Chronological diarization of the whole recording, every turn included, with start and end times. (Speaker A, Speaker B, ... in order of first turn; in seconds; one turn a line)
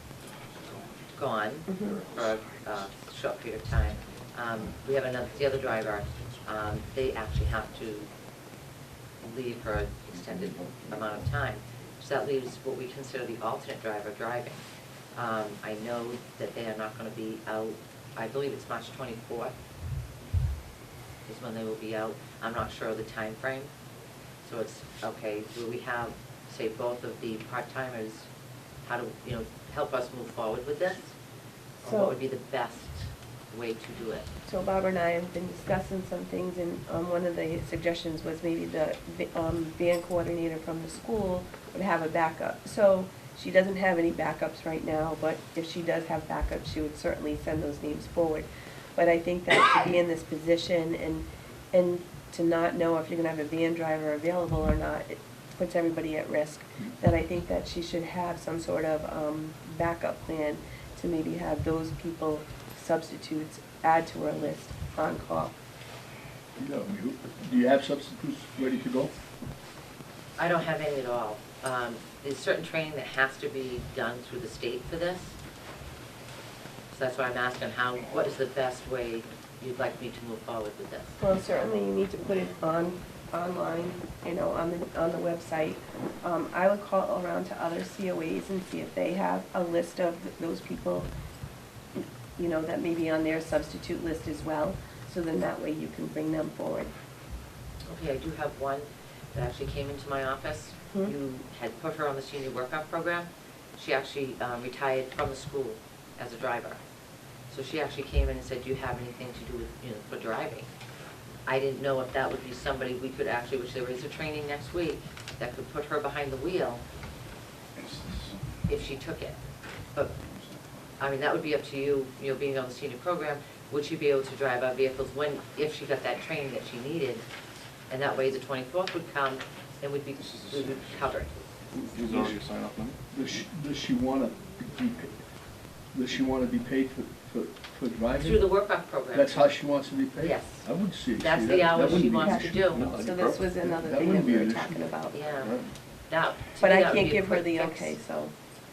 Speaker A: 1.1-8.1
Speaker B: 1.7-2.0
Speaker A: 9.2-14.6
Speaker A: 15.2-19.5
Speaker A: 21.3-23.7
Speaker A: 24.4-28.3
Speaker A: 28.9-31.1
Speaker A: 31.8-34.3
Speaker B: 31.8-32.2
Speaker B: 34.5-65.6
Speaker C: 66.6-69.2
Speaker A: 70.4-75.4
Speaker A: 76.9-81.2
Speaker B: 81.2-91.1
Speaker B: 92.0-96.9
Speaker A: 97.8-106.8
Speaker A: 107.5-110.7
Speaker A: 111.5-116.8
Speaker D: 117.8-118.4
Speaker A: 118.7-119.4
Speaker D: 120.2-120.8
Speaker A: 121.0-127.2
Speaker A: 127.9-131.4
Speaker D: 130.4-130.8
Speaker C: 131.7-132.4
Speaker D: 131.7-133.0
Speaker C: 133.1-135.2
Speaker C: 135.9-138.5
Speaker A: 138.2-139.4
Speaker C: 139.1-142.7
Speaker A: 140.2-140.7
Speaker A: 141.2-142.9
Speaker B: 141.8-145.2
Speaker D: 142.6-143.5
Speaker C: 143.7-144.9
Speaker A: 145.1-145.5
Speaker D: 145.4-145.7
Speaker A: 146.1-148.0
Speaker B: 146.6-148.3